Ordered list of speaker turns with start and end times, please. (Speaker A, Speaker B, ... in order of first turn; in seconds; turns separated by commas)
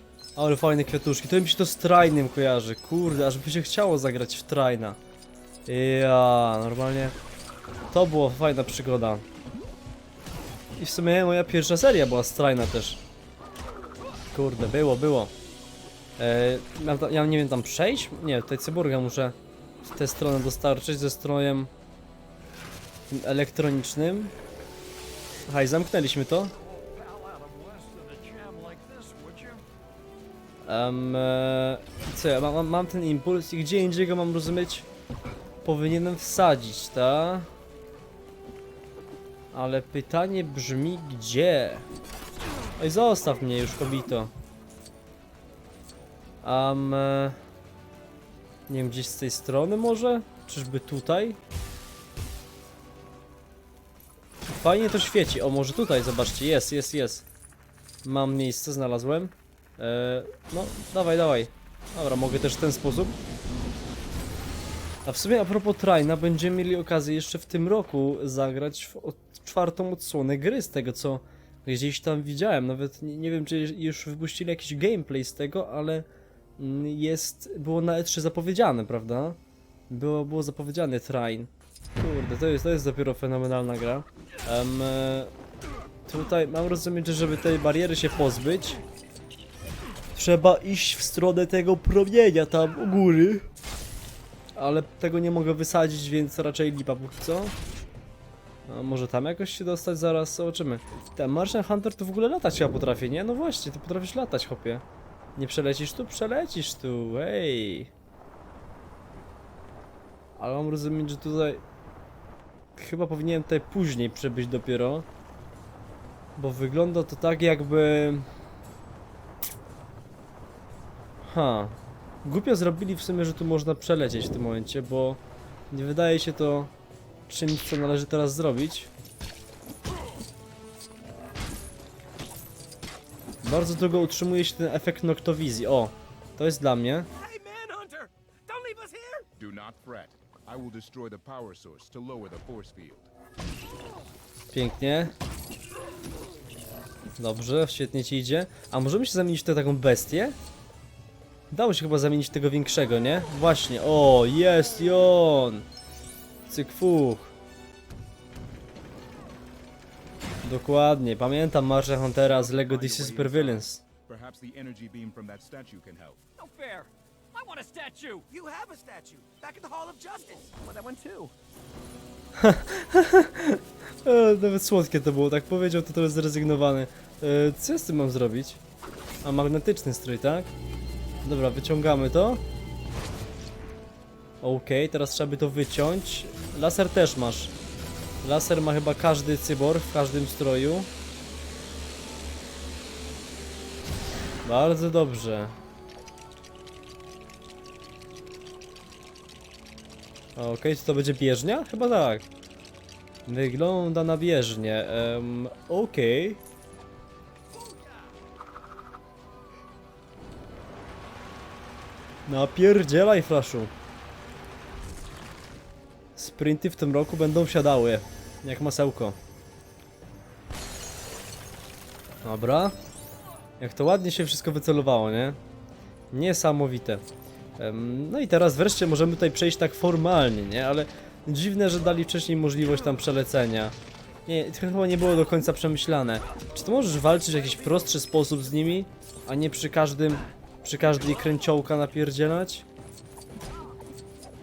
Speaker A: 0.3-5.0, Speaker A: 5.7-7.2, Speaker A: 7.9-9.2, Speaker A: 10.8-13.0, Speaker A: 14.3-15.3, Speaker A: 16.2-21.7, Speaker A: 23.1-24.3, Speaker A: 25.5-26.5, Speaker B: 26.6-29.6, Speaker A: 30.6-34.9, Speaker A: 35.6-37.5, Speaker A: 39.5-41.9, Speaker A: 42.8-44.3, Speaker A: 46.4-47.4, Speaker A: 48.7-51.4, Speaker A: 54.5-57.2, Speaker A: 58.0-63.2, Speaker A: 65.0-76.1, Speaker A: 76.6-79.4, Speaker A: 79.9-85.3, Speaker A: 86.1-88.8, Speaker A: 90.2-93.5, Speaker A: 94.5-97.5, Speaker A: 98.7-104.8, Speaker A: 105.3-107.9, Speaker A: 110.3-111.6, Speaker A: 112.8-115.0, Speaker A: 116.3-118.2, Speaker A: 121.2-126.7, Speaker A: 127.3-128.9, Speaker A: 133.4-137.1, Speaker C: 137.2-139.3, Speaker D: 139.3-143.1, Speaker A: 144.5-145.1, Speaker A: 147.2-150.4, Speaker A: 151.5-155.7, Speaker A: 156.5-157.3, Speaker A: 160.4-163.8, Speaker D: 162.2-166.2, Speaker B: 166.4-168.3, Speaker C: 168.3-170.5, Speaker B: 170.5-171.3, Speaker A: 172.4-178.6, Speaker A: 179.2-180.5, Speaker A: 181.2-182.4, Speaker A: 184.4-187.5, Speaker A: 188.2-190.9, Speaker A: 194.4-195.5, Speaker A: 200.3-202.2, Speaker A: 203.3-206.4, Speaker A: 212.2-213.7, Speaker A: 216.2-219.2, Speaker A: 222.2-222.7, Speaker A: 223.6-225.4, Speaker A: 226.1-227.0, Speaker A: 227.6-233.7, Speaker A: 234.2-242.7